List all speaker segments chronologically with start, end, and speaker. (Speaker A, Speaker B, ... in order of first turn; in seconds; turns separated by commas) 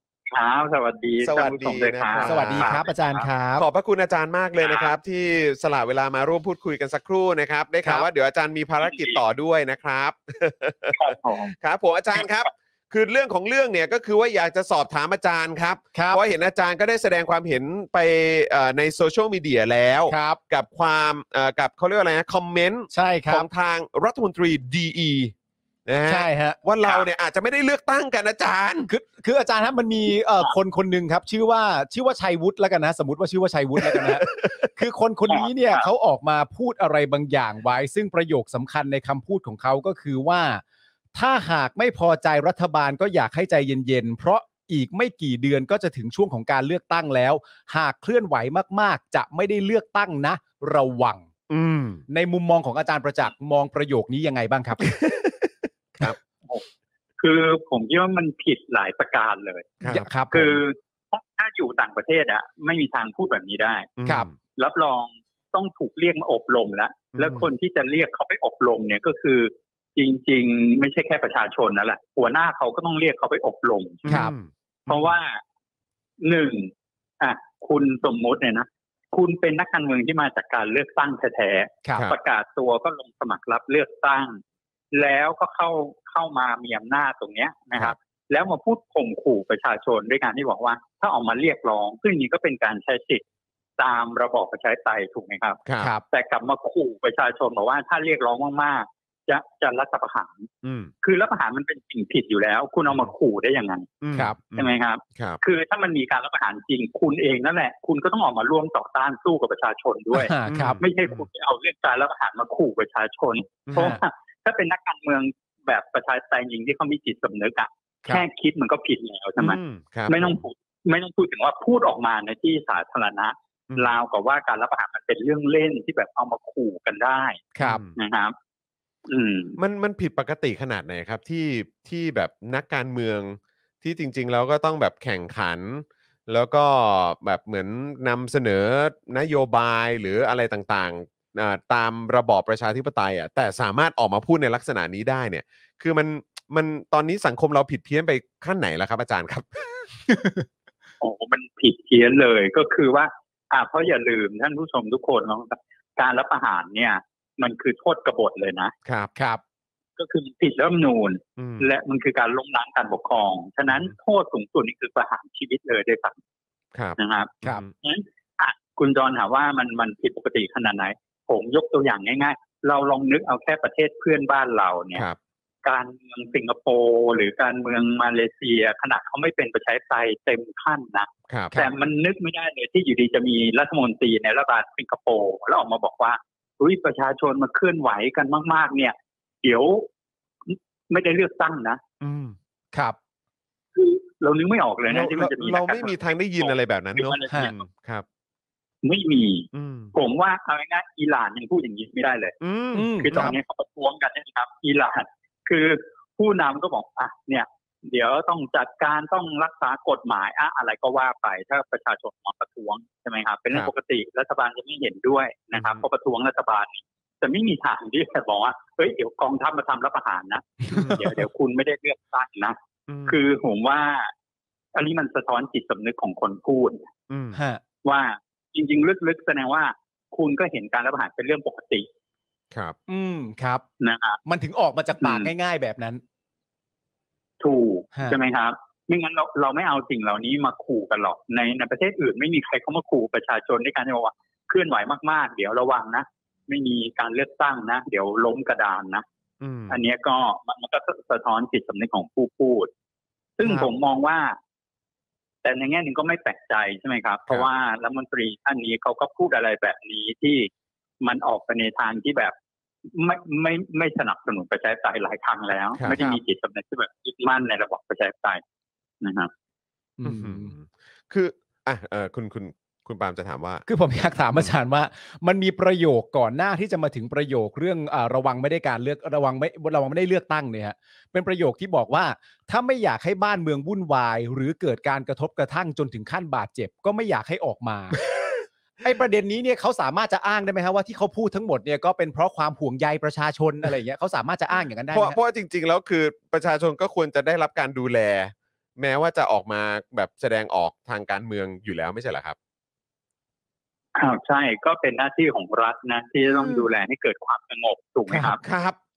Speaker A: 0.3-3.2, Speaker B: 1.2-2.8, Speaker C: 2.2-3.6, Speaker B: 3.5-11.0, Speaker A: 4.6-4.9, Speaker A: 8.8-9.2, Speaker A: 10.9-11.5, Speaker B: 11.5-25.3, Speaker A: 12.2-12.5, Speaker C: 15.9-16.2, Speaker C: 20.1-20.4, Speaker C: 22.9-23.5, Speaker B: 25.9-28.9, Speaker C: 26.1-26.6, Speaker C: 28.9-40.6, Speaker B: 33.9-34.7, Speaker A: 35.3-35.9, Speaker C: 41.1-51.3, Speaker B: 51.5-52.0, Speaker C: 52.1-54.8, Speaker B: 54.8-56.1, Speaker A: 57.2-63.9, Speaker B: 59.8-60.0, Speaker C: 59.9-60.5, Speaker B: 64.0-64.3, Speaker A: 64.5-74.2, Speaker B: 67.2-67.4, Speaker B: 74.0-75.1, Speaker C: 74.1-74.3, Speaker A: 74.9-75.4, Speaker A: 76.2-84.4, Speaker C: 81.8-82.1, Speaker A: 84.9-93.2, Speaker A: 93.8-95.6, Speaker B: 95.7-95.9, Speaker A: 96.1-100.5, Speaker B: 100.6-100.9, Speaker A: 101.0-103.9, Speaker B: 104.0-105.4, Speaker A: 104.5-127.4, Speaker C: 110.1-110.8, Speaker B: 110.5-111.3, Speaker B: 113.7-114.0, Speaker C: 113.7-114.0, Speaker B: 119.4-120.4, Speaker B: 123.7-123.9, Speaker B: 127.5-128.0, Speaker A: 128.0-128.3, Speaker A: 129.1-129.6, Speaker B: 129.6-149.6, Speaker C: 150.1-150.4, Speaker A: 151.0-158.7, Speaker B: 158.8-159.1, Speaker C: 159.1-159.4, Speaker A: 160.0-166.2, Speaker B: 161.4-161.7, Speaker B: 166.7-167.7, Speaker A: 167.0-175.0, Speaker A: 175.6-189.9, Speaker B: 181.3-181.6, Speaker A: 190.5-191.8, Speaker B: 192.0-192.3, Speaker A: 193.7-197.7, Speaker B: 194.9-198.0, Speaker A: 198.8-202.3, Speaker B: 199.5-199.9, Speaker B: 202.4-203.3, Speaker C: 202.7-203.3, Speaker A: 202.9-224.1, Speaker B: 215.5-215.8, Speaker B: 220.8-221.1, Speaker B: 222.9-223.2, Speaker A: 224.7-226.9, Speaker B: 227.1-227.4, Speaker C: 227.3-227.6, Speaker A: 227.8-231.9, Speaker C: 232.9-233.6, Speaker A: 233.8-234.2, Speaker C: 234.2-236.0, Speaker A: 235.0-235.3, Speaker A: 237.4-249.0, Speaker B: 249.4-249.8, Speaker A: 249.7-252.7, Speaker A: 253.4-254.4, Speaker A: 255.4-260.5, Speaker A: 261.0-262.3, Speaker A: 262.9-268.4, Speaker A: 269.0-269.3, Speaker C: 270.0-270.5, Speaker B: 270.0-273.6, Speaker C: 273.7-288.0, Speaker B: 288.1-288.4, Speaker C: 288.8-295.2, Speaker B: 294.9-302.4, Speaker A: 303.9-308.4, Speaker B: 306.3-306.6, Speaker B: 308.1-308.8